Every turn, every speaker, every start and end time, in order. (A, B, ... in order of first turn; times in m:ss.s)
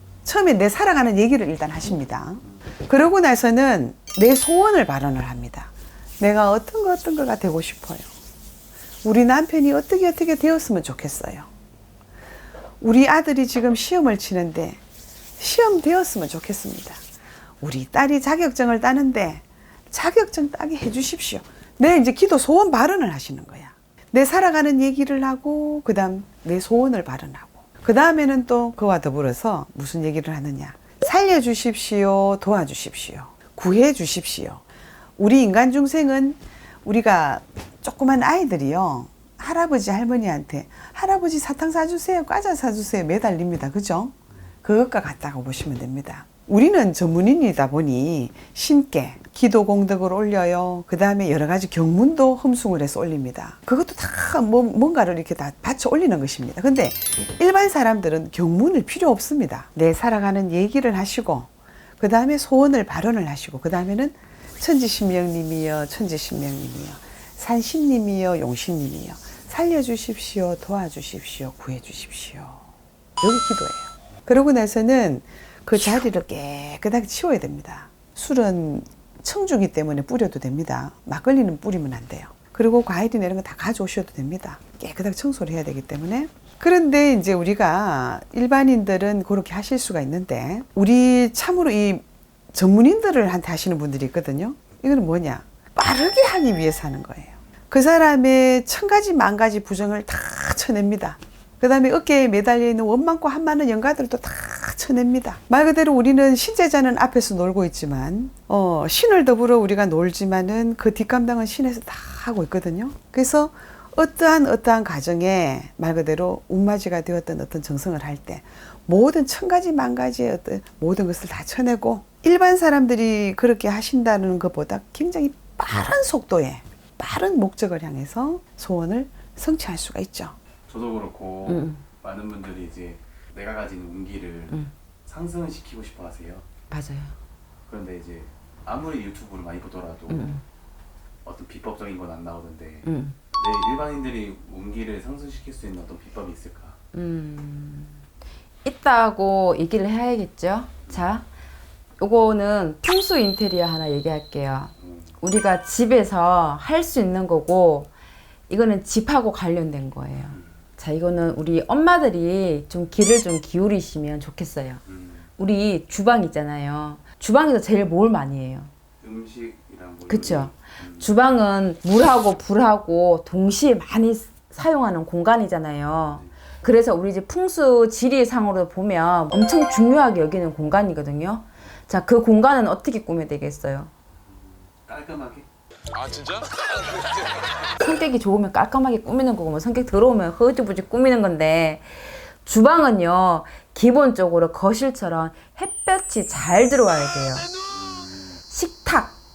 0:00.2-0:08.1 A
0:09.0-0:11.5 A
0:12.8-0:14.8 A
0:15.4-0:17.0 A
0:17.6-0:34.6 A
0:35.2-1:12.6 A
1:13.2-2:10.4 A
2:10.7-2:16.4 B
2:11.4-2:11.8 C
2:16.7-2:17.1 C
2:17.7-2:20.3 B
2:20.1-2:20.4 C
2:21.2-2:26.8 B
2:22.8-2:23.2 C
2:26.9-2:27.9 C
2:28.6-2:31.2 C
2:32.0-2:37.9 C
2:34.8-2:35.2 B
2:38.5-2:44.8 C
2:44.9-2:45.3 B
2:45.4-2:48.7 C
2:49.0-2:51.1 B
2:50.1-3:03.9 C
3:04.2-3:06.5 B
3:07.8-3:11.9 C
3:12.4-3:17.5 C
3:17.7-3:18.4 B
3:18.5-3:19.1 C